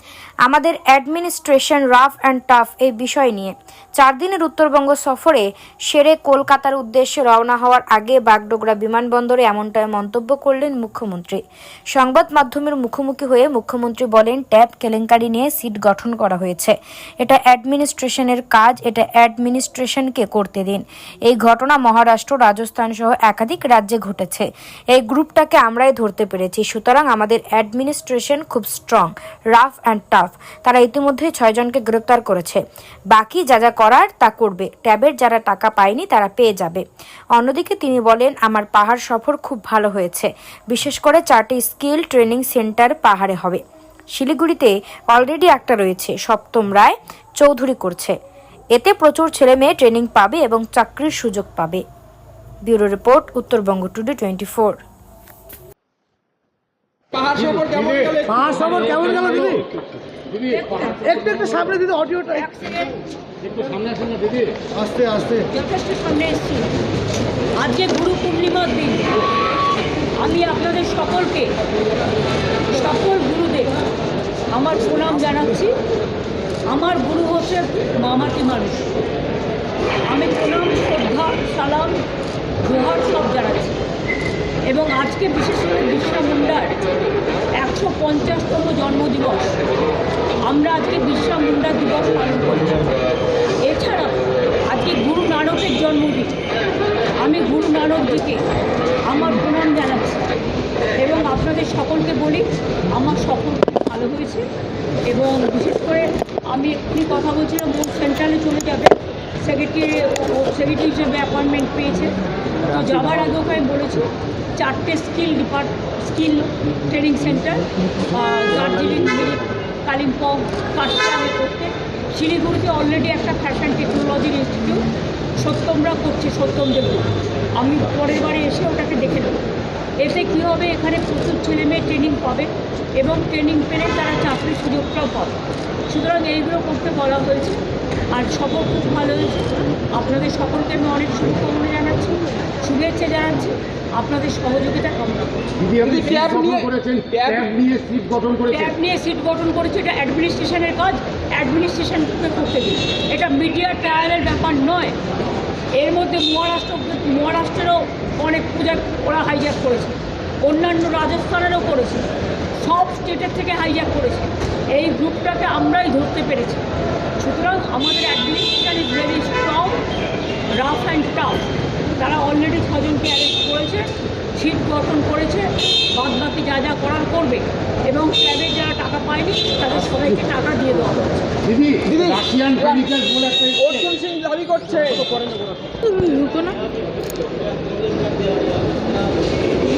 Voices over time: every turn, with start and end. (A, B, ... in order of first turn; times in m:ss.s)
0:00.4-0:11.4 A
0:11.9-0:36.8 A
0:37.4-0:43.6 A
0:44.2-0:48.1 A
0:48.7-0:51.8 A
0:52.6-0:54.8 A
0:57.3-0:58.7 B
0:57.4-0:59.5 C
0:59.0-0:59.4 D
1:00.3-1:03.0 D
1:03.6-1:04.4 C
1:04.7-1:06.7 D
1:07.6-1:09.3 D
1:10.2-1:11.6 D
1:12.7-1:13.8 D
1:14.5-1:15.8 D
1:16.7-1:18.9 D
1:20.0-1:22.0 D
1:22.6-1:23.8 D
1:24.6-1:27.0 D
1:27.5-1:29.7 D
1:30.4-1:33.0 D
1:33.6-1:36.4 D
1:37.2-1:38.4 D
1:39.0-1:40.3 D
1:40.9-1:44.5 D
1:45.0-2:09.4 D
2:10.0-2:17.6 D
2:18.1-2:25.8 D
2:25.6-2:28.5 C
2:28.4-2:35.0 D
2:35.7-2:46.7 D
2:47.2-2:49.8 D
2:50.5-3:01.4 D
3:01.6-3:04.0 C
3:03.9-3:05.0 B
3:05.8-3:06.6 D